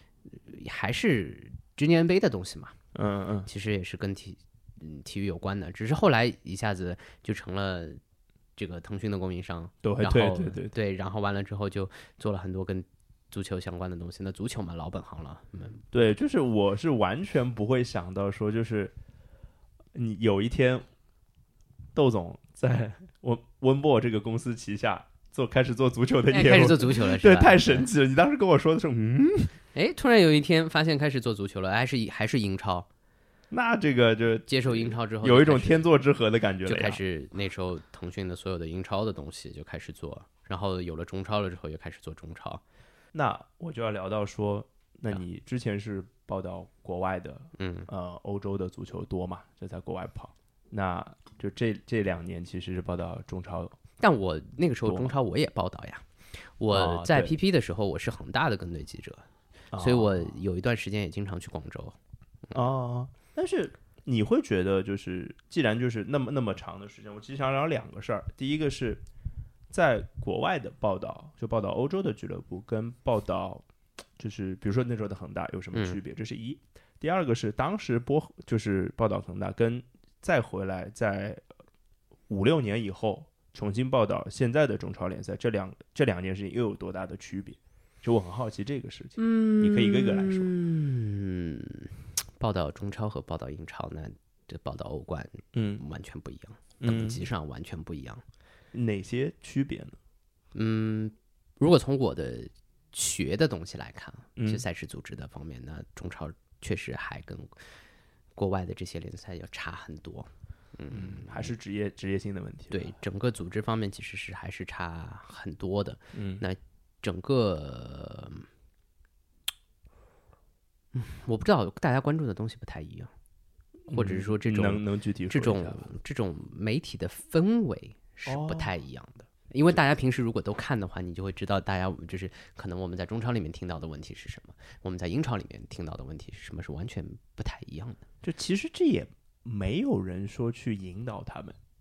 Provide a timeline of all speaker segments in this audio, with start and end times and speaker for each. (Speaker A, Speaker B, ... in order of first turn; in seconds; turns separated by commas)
Speaker A: 0.3-2.7, Speaker B: 2.9-3.5, Speaker A: 3.5-8.0, Speaker A: 8.6-15.8, Speaker B: 9.8-10.7, Speaker B: 15.9-18.9, Speaker B: 19.9-20.9, Speaker B: 21.9-29.5, Speaker A: 26.3-27.9, Speaker A: 29.7-32.9, Speaker B: 33.5-37.0, Speaker A: 34.5-35.9, Speaker A: 36.6-42.6, Speaker B: 43.1-53.8, Speaker A: 47.6-47.9, Speaker A: 54.0-59.2, Speaker B: 54.9-55.1, Speaker B: 56.7-57.3, Speaker B: 59.7-60.3, Speaker A: 59.8-62.0, Speaker B: 62.5-69.0, Speaker B: 69.7-73.6, Speaker B: 74.2-81.4, Speaker A: 75.7-76.0, Speaker B: 82.3-90.5, Speaker A: 89.2-98.2, Speaker B: 95.5-95.8, Speaker B: 96.8-97.2, Speaker B: 98.7-100.0, Speaker A: 100.5-107.5, Speaker B: 104.3-104.6, Speaker A: 108.3-111.5, Speaker B: 110.9-112.9, Speaker A: 112.7-118.5, Speaker B: 116.1-116.4, Speaker A: 120.9-123.1, Speaker B: 123.9-125.9, Speaker A: 123.9-138.0, Speaker B: 128.2-128.7, Speaker B: 138.2-141.6